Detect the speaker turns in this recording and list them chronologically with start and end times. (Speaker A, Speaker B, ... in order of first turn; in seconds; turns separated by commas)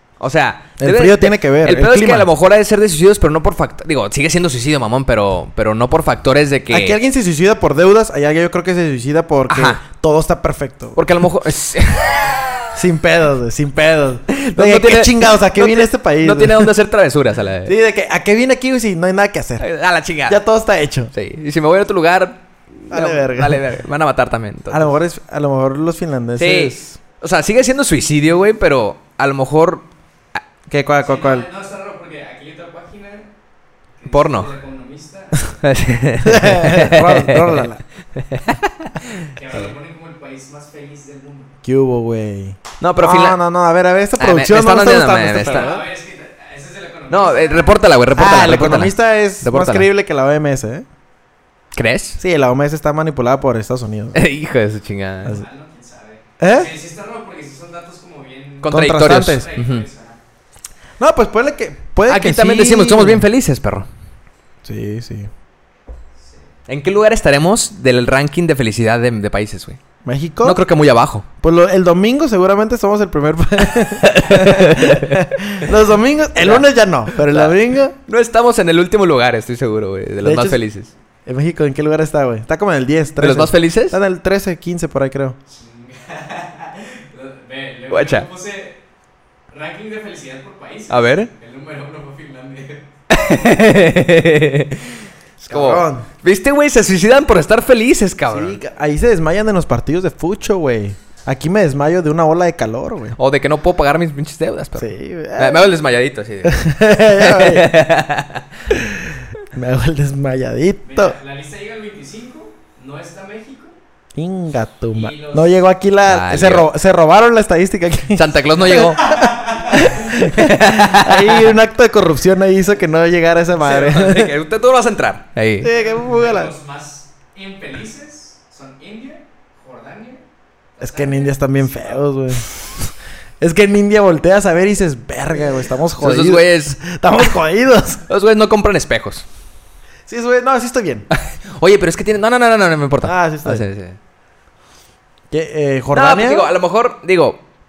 Speaker A: 0.2-7.0, Speaker B: 0.8-2.3, Speaker B: 6.7-11.0, Speaker A: 9.5-9.8, Speaker A: 10.9-12.7, Speaker B: 12.7-16.7, Speaker A: 14.3-17.7, Speaker B: 17.6-19.6, Speaker A: 19.6-20.4, Speaker B: 20.3-21.1, Speaker A: 21.1-24.9, Speaker B: 22.9-23.6, Speaker B: 24.7-27.0, Speaker A: 26.4-29.9, Speaker B: 30.7-31.5, Speaker C: 31.0-33.3, Speaker C: 34.0-35.6, Speaker A: 34.1-34.5, Speaker A: 35.6-39.6, Speaker B: 36.2-37.8, Speaker C: 39.3-41.5, Speaker B: 41.6-45.9, Speaker A: 42.8-43.4, Speaker A: 44.2-45.7, Speaker C: 45.4-47.8, Speaker A: 47.1-49.9, Speaker B: 48.1-50.9, Speaker A: 51.7-52.2, Speaker B: 52.2-54.2, Speaker A: 54.1-55.4, Speaker C: 55.3-60.2, Speaker B: 56.4-56.7, Speaker A: 58.6-59.8, Speaker B: 58.7-59.5, Speaker B: 61.0-63.2, Speaker A: 62.1-63.9, Speaker B: 64.6-65.3, Speaker C: 66.2-66.4, Speaker A: 66.7-69.8, Speaker B: 70.0-70.6, Speaker A: 70.4-71.2, Speaker B: 71.4-77.9, Speaker A: 73.7-75.7, Speaker A: 76.4-80.9, Speaker B: 80.2-80.6, Speaker B: 81.2-85.4, Speaker A: 83.2-84.0, Speaker C: 85.5-88.8, Speaker A: 87.9-88.3, Speaker C: 89.5-92.9, Speaker A: 90.9-91.3, Speaker A: 93.1-98.6, Speaker B: 95.5-96.1, Speaker B: 98.3-103.2, Speaker A: 103.2-108.6, Speaker B: 104.8-105.8, Speaker B: 106.4-107.7, Speaker B: 108.7-111.2, Speaker C: 110.8-113.7, Speaker B: 114.2-124.3, Speaker C: 114.9-115.5, Speaker A: 116.0-116.7, Speaker A: 118.1-119.0, Speaker C: 119.0-120.1, Speaker A: 119.7-121.5, Speaker A: 123.6-125.7, Speaker B: 125.6-126.5, Speaker C: 125.7-130.2, Speaker C: 130.8-132.0, Speaker B: 130.8-138.0, Speaker A: 136.0-136.8, Speaker A: 138.1-139.2, Speaker B: 140.1-141.1, Speaker A: 141.1-144.0, Speaker B: 143.0-143.6, Speaker B: 145.3-146.5, Speaker A: 145.9-147.4